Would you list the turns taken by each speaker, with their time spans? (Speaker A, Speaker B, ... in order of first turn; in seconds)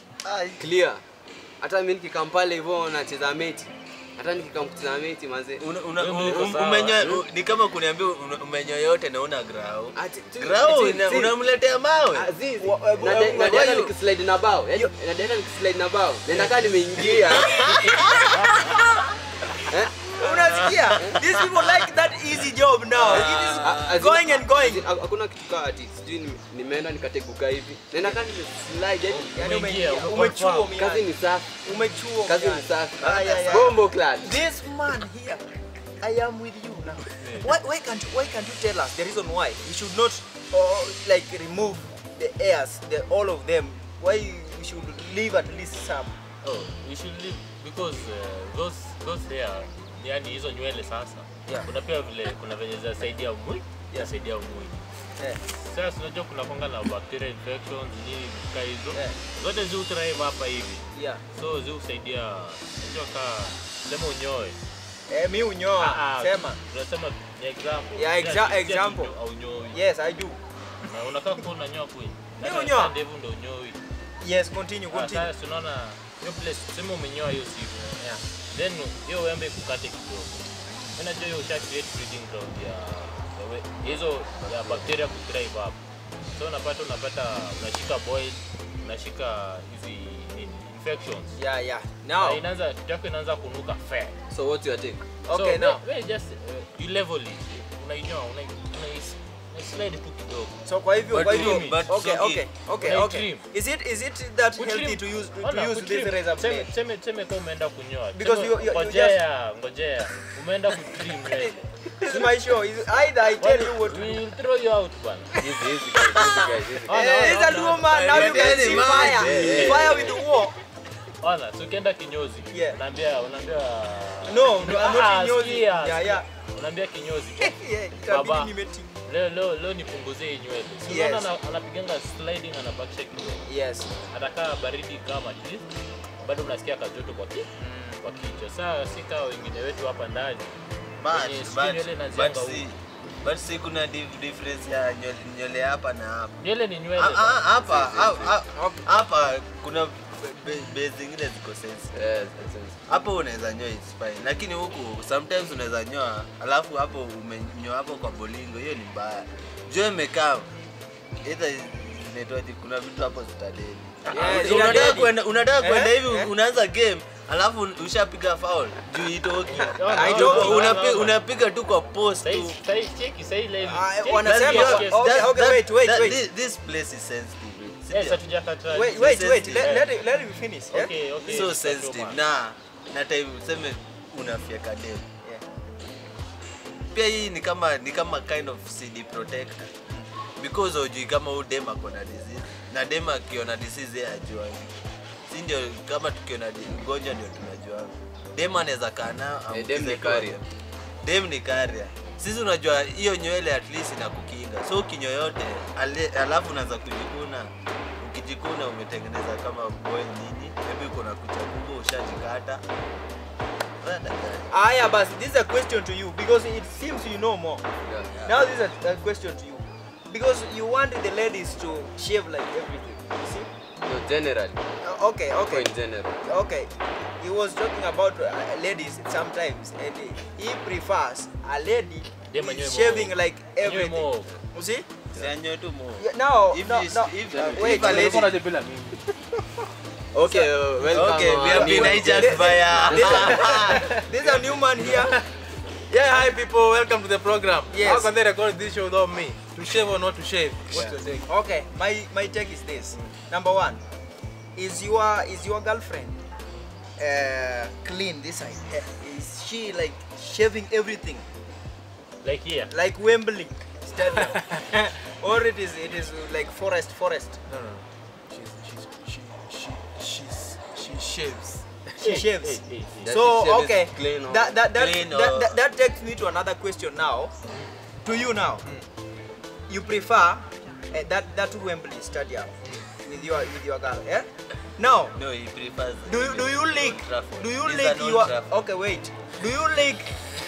Speaker A: 0.2-0.6, 5.6-12.3, 13.3-13.9, 17.4-18.8, 22.9-24.0, 33.3-33.6, 84.4-84.9, 101.1-102.5, 117.9-120.1, 141.0-146.4, 147.0-152.3, 152.9-160.5, 161.2-172.6, 174.2-178.2, 178.8-179.8, 181.2-185.1, 186.9-189.7, 190.4-200.5, 201.0-212.6, 213.8-214.5, 218.1-218.5, 235.1-238.3, 240.9-243.9, 274.7-275.6, 285.1-288.6
Speaker B: 0.6-1.0, 1.6-5.7, 9.9-11.3, 12.1-18.1, 19.6-20.3, 23.0-29.3, 30.8-34.4, 94.3-95.0, 115.4-117.3, 118.9-120.2, 147.6-148.4, 151.9-152.8, 164.1-164.9, 199.5-200.4, 217.8-218.1, 223.8-224.7, 225.4-226.2, 240.1-243.6, 273.0-274.6
Speaker C: 6.0-7.1, 29.1-30.8, 37.2-37.5, 46.4-54.9, 55.4-64.6, 65.8-69.8, 70.9-73.8, 74.9-80.4, 81.0-85.8, 86.3-91.4, 92.2-94.1, 95.3-101.9, 102.8-103.5, 104.6-112.3, 113.4-115.3, 116.9-118.8, 121.2-128.5, 129.0-133.4, 134.0-135.7, 136.2-137.5, 138.0-142.6, 146.4-147.4, 169.5-171.2, 172.2-175.2, 177.9-179.9, 180.7-182.2, 232.3-234.3, 262.2-262.7, 272.0-273.1
Speaker D: 12.6-13.8, 17.0-17.5, 20.1-24.8, 29.1-31.1, 31.6-35.5, 36.0-46.1, 60.9-61.2, 65.1-66.6, 68.0-69.1, 69.7-70.4, 72.4-72.9, 74.2-75.3, 91.4-92.4, 95.3-95.8, 100.7-106.7, 108.1-109.2, 112.0-114.2, 116.9-120.5, 122.5-122.8, 124.3-126.2, 127.4-128.9, 130.8-131.3, 133.5-133.9, 137.6-138.0, 148.5-148.9, 164.1-166.3, 169.9-170.8, 173.6-176.2, 178.7-180.9, 214.5-217.6, 218.2-223.5, 224.8-225.7, 226.2-234.9, 236.0-238.4, 240.2-245.2, 247.7-248.1, 251.3-253.8, 254.6-256.2, 257.0-261.2, 262.7-267.4, 272.0-277.3, 278.0-278.6, 279.7-285.2, 286.1-290.2
Speaker E: 237.3-239.0, 243.1-245.3, 245.9-251.3, 267.5-272.2